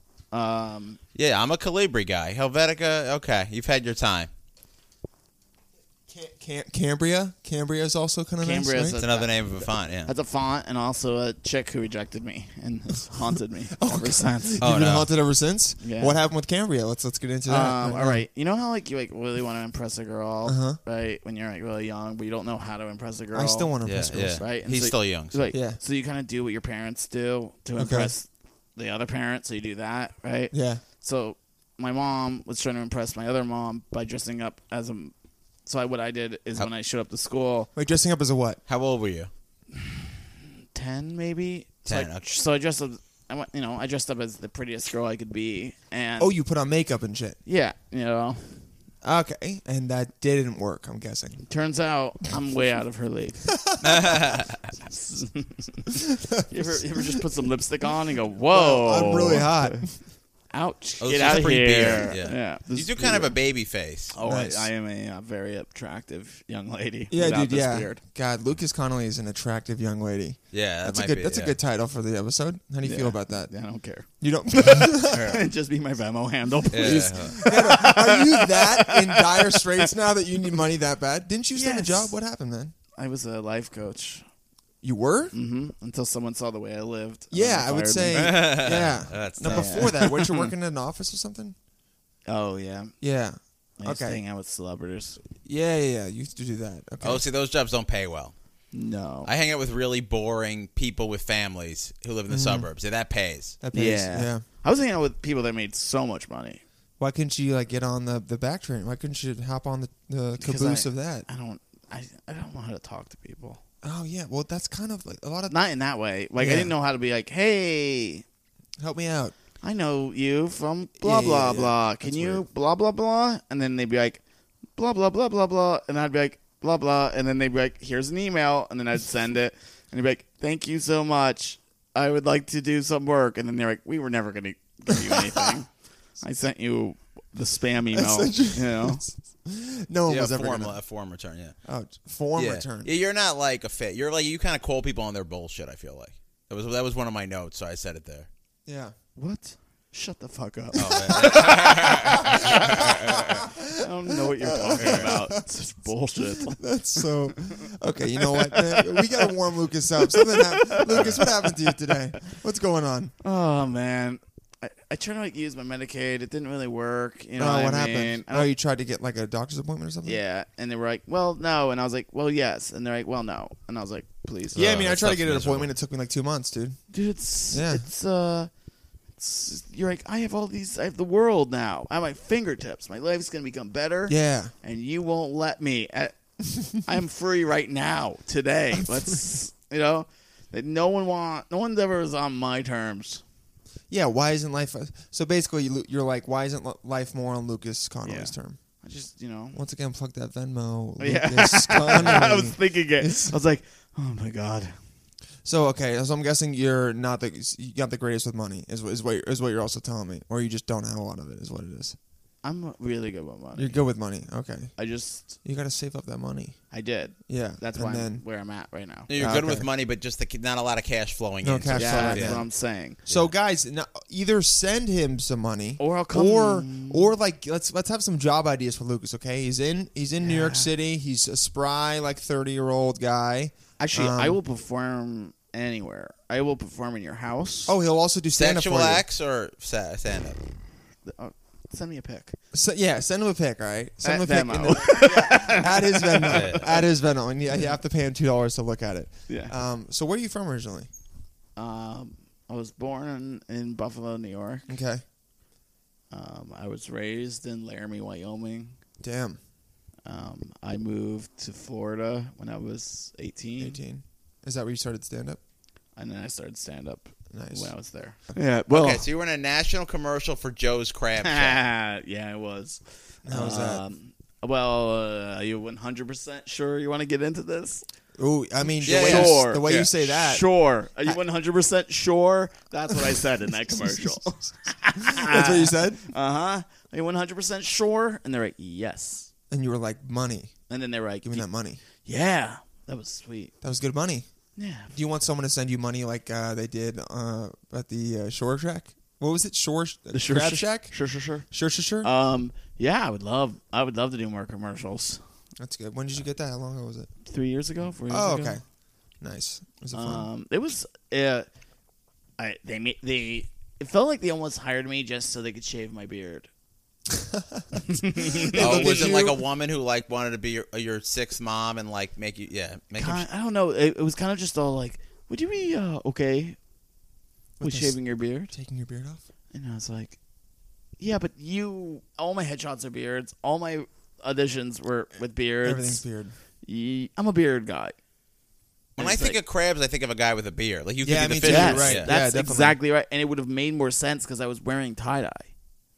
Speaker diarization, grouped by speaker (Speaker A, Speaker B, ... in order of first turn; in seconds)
Speaker A: 0.3-1.0, 8.4-14.6, 15.8-16.2, 17.5-23.7, 24.4-35.1, 35.7-37.7, 39.8-40.1, 40.7-46.3, 47.5-48.5, 51.5-53.4, 54.7-59.9, 60.5-63.4, 64.1-68.0, 72.8-79.9, 81.5-82.1, 83.0-84.2, 85.3-88.7, 89.4-90.5, 92.3-93.0, 93.8-95.2, 98.7-99.3, 103.7-106.6, 110.4-113.6, 115.5-118.2, 119.6-124.2, 124.8-139.0, 149.2-153.2, 153.8-157.7, 158.2-159.3, 160.0-161.9, 163.2-168.5, 170.1-174.7, 176.9-178.5, 179.2-193.2, 198.0-199.6, 201.0-204.8, 212.4-213.8, 214.8-215.3, 216.7-219.1, 221.7-223.0, 225.8-227.1, 230.2-230.7, 233.8-237.8, 241.1-242.4, 244.0-246.8, 249.3-249.5, 251.6-254.7, 256.1-258.8, 260.1-263.8, 266.0-269.0, 271.2-277.9, 278.8-289.3, 290.7-291.5, 292.0-293.5, 294.6-294.9, 300.1-301.5, 302.0-305.2, 307.2-308.6, 309.9-311.5, 312.4-316.5, 317.9-319.3, 322.9-326.6, 327.6-328.5, 329.5-330.2, 331.0-336.0, 336.6-338.0, 339.0-339.4, 341.4-345.5
Speaker B: 1.1-4.3, 9.0-10.1, 14.6-15.1, 23.9-25.4, 38.7-39.3, 41.9-42.2, 53.8-54.7, 61.0-64.1, 70.5-71.6, 75.1-75.4, 76.7-77.4, 88.1-90.3, 97.0-98.3, 99.2-103.6, 140.1-141.6, 142.3-148.3, 150.8-153.5, 154.8-155.2, 160.9-161.2, 174.6-175.7, 219.1-222.5, 223.1-223.3, 238.3-240.4, 246.3-246.8, 268.7-271.6, 278.9-279.8, 318.5-323.3, 339.0-342.1
Speaker C: 6.1-9.0, 13.8-18.2, 20.5-20.8, 23.3-24.4, 25.5-25.8, 27.8-28.1, 30.5-30.8, 37.8-38.6, 46.2-47.4, 49.0-51.5, 53.5-54.2, 56.3-56.8, 58.5-60.0, 64.2-64.7, 67.1-73.5, 74.2-75.4, 76.7-82.7, 84.8-85.3, 87.3-91.6, 93.0-94.2, 95.4-97.3, 102.3-102.7, 103.6-104.5, 107.0-111.3, 113.8-115.5, 116.4-116.7, 118.8-119.3, 121.0-122.4, 135.0-135.5, 137.9-140.8, 141.7-142.9, 148.7-148.9, 150.8-155.2, 156.4-163.1, 167.4-170.2, 174.6-176.8, 177.5-177.9, 184.1-184.5, 193.9-198.6, 199.5-203.3, 205.4-212.0, 213.6-214.8, 215.4-216.6, 217.3-218.2, 219.2-219.7, 221.4-222.5, 223.1-234.4, 237.7-239.0, 242.5-250.9, 254.7-255.0, 259.0-259.4, 263.6-265.4, 267.3-267.7, 273.3-273.8, 278.2-280.5, 283.0-284.2, 285.0-286.1, 289.5-290.5, 291.2-291.8, 293.6-294.3, 294.9-302.1, 305.6-307.1, 308.1-308.6, 309.2-310.3, 317.1-319.4, 327.6-329.2, 335.6-336.4, 341.0-342.8